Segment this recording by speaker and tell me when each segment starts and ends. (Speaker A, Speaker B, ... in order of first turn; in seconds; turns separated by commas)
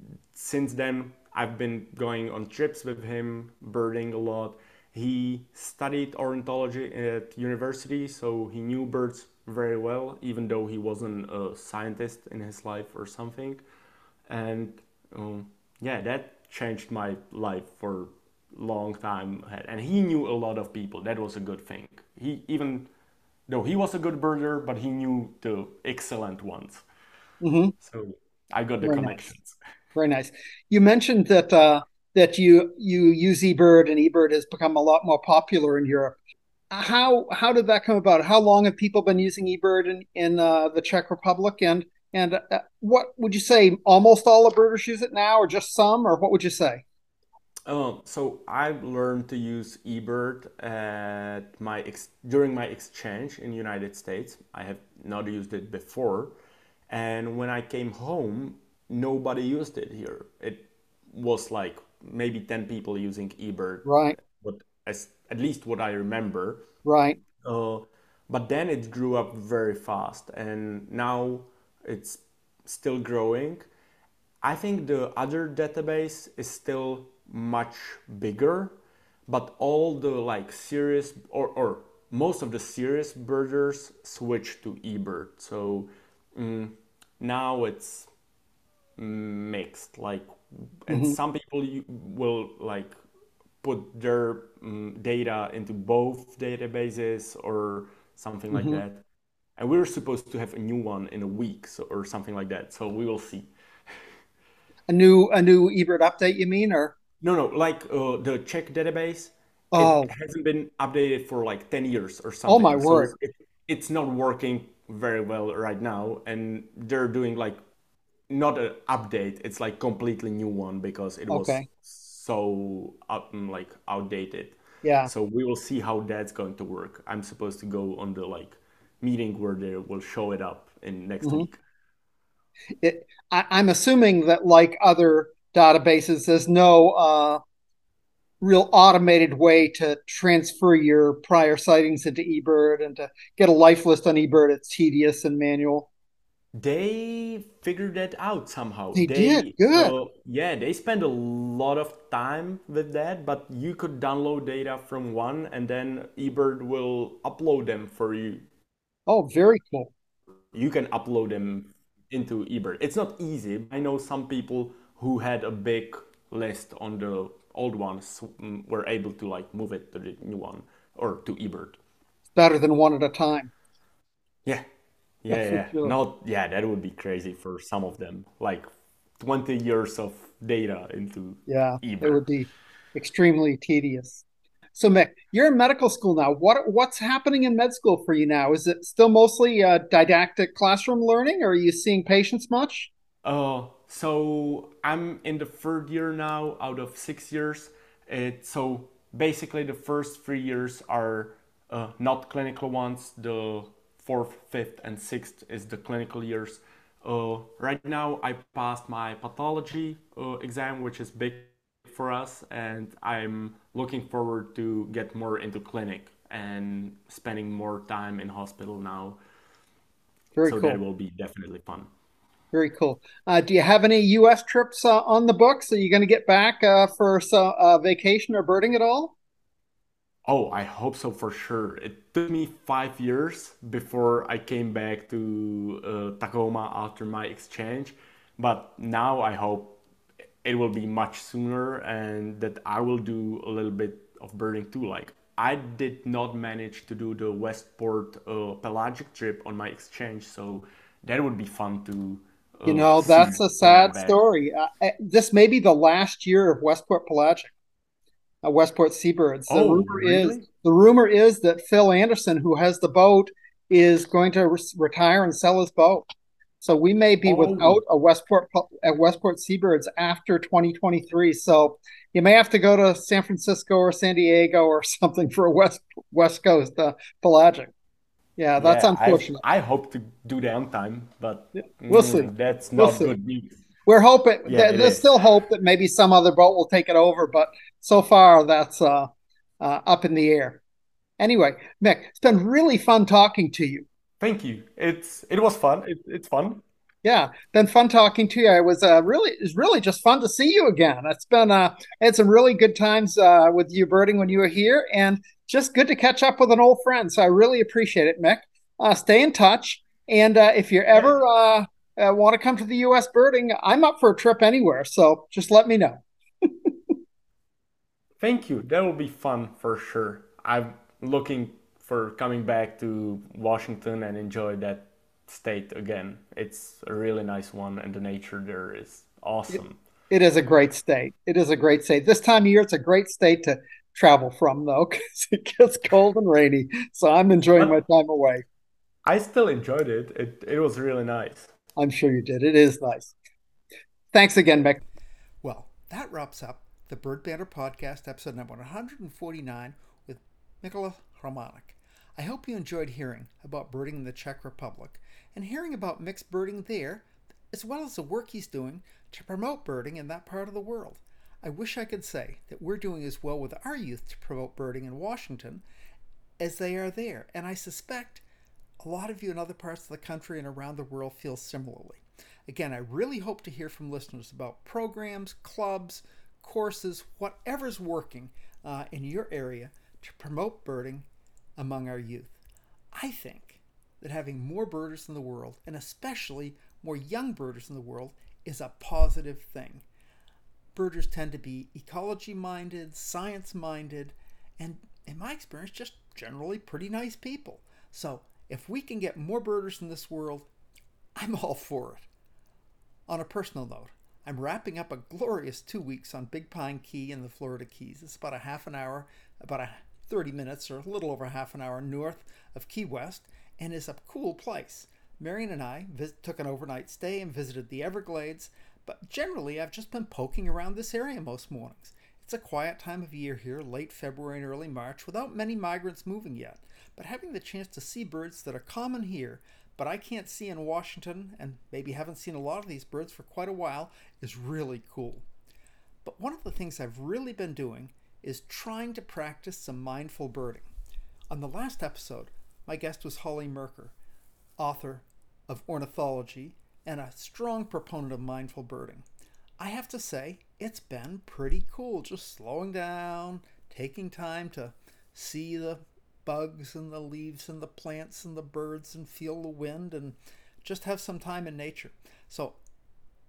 Speaker A: 0.3-13.6, Speaker A: 14.3-22.9, Speaker A: 23.5-26.8, Speaker B: 27.4-27.7, Speaker A: 27.8-29.6, Speaker B: 28.8-29.2, Speaker B: 29.9-36.2, Speaker B: 36.7-46.8, Speaker A: 47.7-56.3, Speaker A: 56.9-66.6, Speaker B: 63.8-64.2, Speaker B: 66.8-67.2, Speaker A: 67.4-73.7, Speaker A: 74.4-78.7, Speaker A: 79.3-88.1, Speaker A: 89.0-93.0, Speaker B: 90.9-91.2, Speaker A: 93.6-99.0, Speaker B: 98.5-98.8, Speaker A: 99.6-103.5, Speaker B: 104.9-106.9, Speaker A: 107.2-117.6, Speaker B: 109.7-110.1, Speaker B: 112.5-113.1, Speaker A: 118.3-131.6, Speaker B: 121.3-121.7, Speaker B: 124.8-125.1, Speaker B: 131.2-131.5, Speaker B: 132.8-137.4, Speaker B: 138.4-145.9, Speaker A: 146.6-158.4, Speaker B: 148.9-149.9, Speaker B: 159.1-159.9, Speaker A: 160.5-171.8, Speaker B: 172.3-173.5, Speaker A: 175.2-178.7, Speaker B: 175.3-175.9, Speaker A: 179.2-182.2, Speaker B: 181.5-192.9, Speaker A: 193.2-219.2, Speaker B: 220.3-220.8, Speaker A: 220.4-221.9, Speaker B: 222.5-229.1, Speaker A: 230.3-239.8, Speaker A: 240.4-254.2, Speaker B: 252.6-257.5, Speaker B: 258.4-266.1, Speaker A: 259.5-260.4, Speaker B: 266.6-277.7, Speaker A: 267.2-267.8, Speaker B: 278.4-279.4, Speaker A: 278.6-283.6, Speaker B: 281.9-283.1, Speaker B: 283.9-289.1, Speaker A: 284.4-285.2, Speaker B: 289.6-290.6, Speaker B: 291.2-293.9, Speaker A: 294.2-296.6, Speaker B: 297.0-316.9, Speaker A: 318.2-329.8, Speaker B: 330.1-338.4, Speaker A: 339.0-341.5, Speaker B: 341.8-343.1, Speaker B: 344.1-344.8, Speaker C: 345.4-365.6, Speaker C: 366.4-368.2, Speaker C: 368.8-381.1, Speaker C: 381.6-382.4, Speaker C: 382.9-389.8, Speaker C: 390.7-400.5, Speaker C: 401.2-402.1, Speaker C: 403.1-435.2, Speaker C: 436.0-440.7, Speaker C: 441.3-443.9, Speaker C: 444.6-449.0, Speaker C: 449.6-462.6